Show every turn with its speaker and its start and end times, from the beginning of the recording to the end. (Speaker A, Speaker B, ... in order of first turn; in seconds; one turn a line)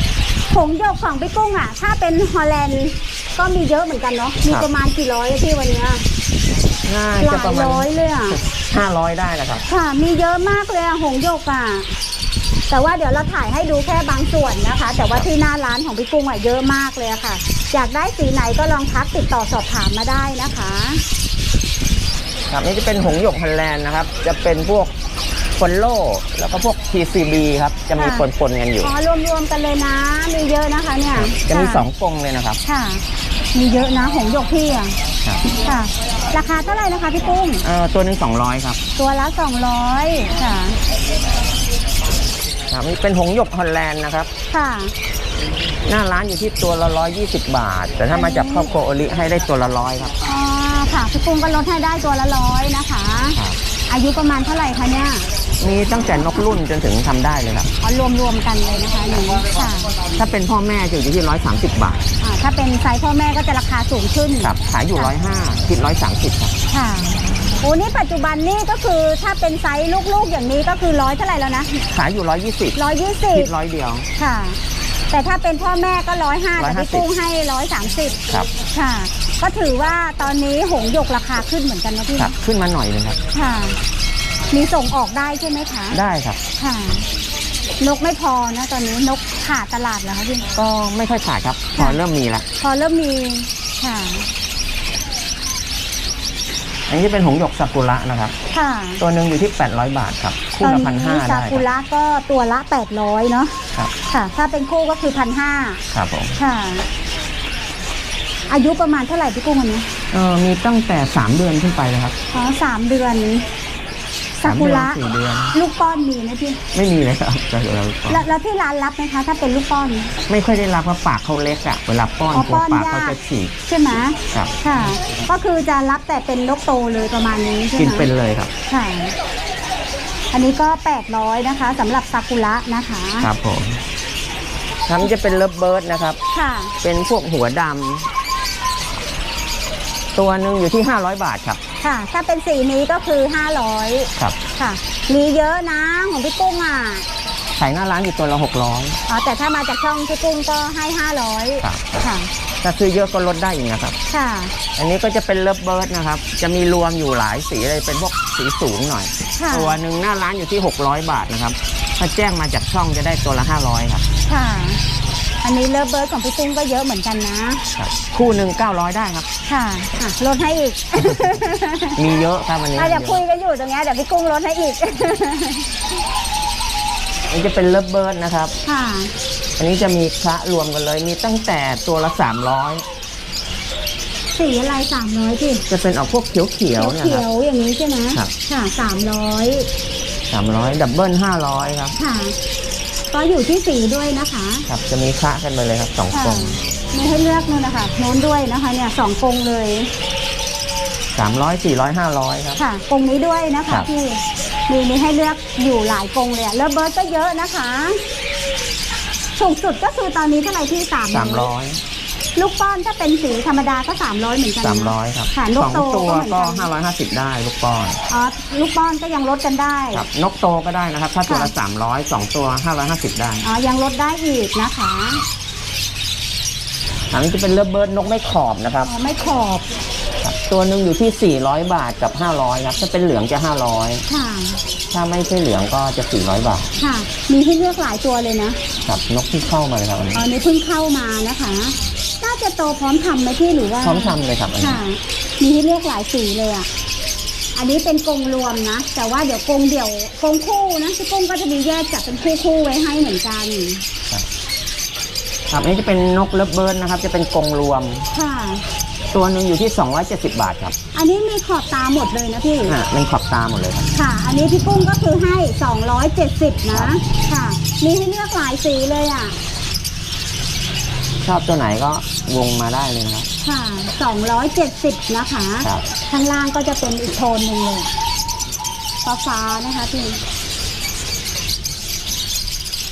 Speaker A: 0.5-6.0
Speaker B: 6.8-7.9
Speaker A: 7.2-8.4
Speaker B: 8.5-9.6
Speaker A: 9.7-11.9
Speaker A: 12.7-21.0
Speaker B: 22.5-24.9
Speaker B: 25.6-28.9
Speaker A: 28.0-28.2
Speaker A: 28.8-31.9
Speaker B: 31.1-32.6
Speaker A: 32.6-33.0
Speaker A: 33.5-35.0
Speaker A: 35.6-37.6
Speaker B: 37.6-38.8
Speaker A: 39.0-40.8
Speaker B: 42.7-44.3
Speaker A: 44.5-44.9
Speaker B: 45.9-50.1
Speaker A: 48.1-48.7
Speaker A: 50.2-53.4
Speaker B: 53.3-53.6
Speaker A: 53.9-55.3
Speaker B: 55.6-57.7
Speaker A: 57.8-60.0
Speaker B: 59.1-59.4
Speaker B: 60.1-62.0
Speaker A: 62.2-65.1
Speaker B: 64.4-66.5
Speaker A: 66.7-71.8
Speaker B: 71.9-72.8
Speaker A: 72.8-73.5
Speaker B: 73.3-74.1
Speaker A: 74.2-74.6
Speaker A: 75.1-82.3
Speaker B: 76.6-77.1
Speaker B: 82.2-83.2
Speaker A: 83.3-83.8
Speaker A: 84.5-86.0
Speaker B: 85.9-86.4
Speaker A: 86.6-87.0
Speaker A: 87.8-90.5
Speaker B: 90.5-92.5
Speaker A: 92.6-94.3
Speaker B: 96.9-98.3
Speaker A: 98.5-99.0
Speaker B: 99.0-101.6
Speaker A: 100.6-103.6
Speaker A: 104.1-105.8
Speaker B: 105.9-106.3
Speaker A: 106.4-106.8
Speaker A: 108.5-109.8
Speaker B: 110.1-112.1
Speaker A: 112.3-113.4
Speaker A: 114.4-115.0
Speaker B: 114.4-115.6
Speaker A: 115.5-116.6
Speaker B: 116.7-118.2
Speaker A: 118.1-120.1
Speaker B: 120.3-123.5
Speaker A: 122.3-123.2
Speaker A: 123.7-128.1
Speaker B: 124.3-125.2
Speaker B: 127.8-128.5
Speaker A: 128.7-129.1
Speaker A: 130.3-133.3
Speaker B: 133.2-133.8
Speaker B: 134.8-136.2
Speaker A: 136.3-136.7
Speaker B: 136.8-138.1
Speaker B: 140.1-141.6
Speaker A: 141.8-147.1
Speaker B: 147.6-149.0
Speaker A: 149.1-152.3
Speaker B: 151.6-152.1
Speaker B: 152.6-154.0
Speaker A: 154.1-154.5
Speaker B: 154.8-164.0
Speaker A: 159.4-159.8
Speaker A: 164.3-164.8
Speaker A: 165.4-167.6
Speaker B: 167.7-169.3
Speaker A: 169.5-172.0
Speaker B: 171.9-173.2
Speaker A: 172.7-175.7
Speaker B: 177.3-178.6
Speaker A: 178.6-179.1
Speaker B: 179.6-182.8
Speaker A: 184.3-185.6
Speaker B: 185.7-187.2
Speaker A: 186.8-189.7
Speaker B: 190.3-191.9
Speaker A: 192.0-192.3
Speaker A: 193.1-194.7
Speaker B: 194.7-196.6
Speaker A: 196.1-199.9
Speaker B: 201.1-202.6
Speaker A: 202.6-208.0
Speaker A: 209.4-211.5
Speaker B: 211.1-211.8
Speaker A: 212.3-216.7
Speaker B: 214.6-218.0
Speaker A: 218.1-220.1
Speaker B: 219.9-223.4
Speaker A: 223.4-225.2
Speaker B: 227.1-228.9
Speaker A: 228.8-229.7
Speaker B: 230.2-234.0
Speaker A: 234.1-234.6
Speaker B: 234.9-236.8
Speaker A: 236.8-238.6
Speaker B: 238.8-240.3
Speaker A: 240.1-246.7
Speaker B: 243.8-244.8
Speaker A: 247.5-253.8
Speaker B: 255.5-258.1
Speaker A: 258.1-258.6
Speaker B: 259.1-260.8
Speaker A: 260.9-262.8
Speaker B: 262.6-263.9
Speaker A: 263.9-269.4
Speaker B: 271.2-273.3
Speaker A: 273.4-277.9
Speaker A: 279.0-280.2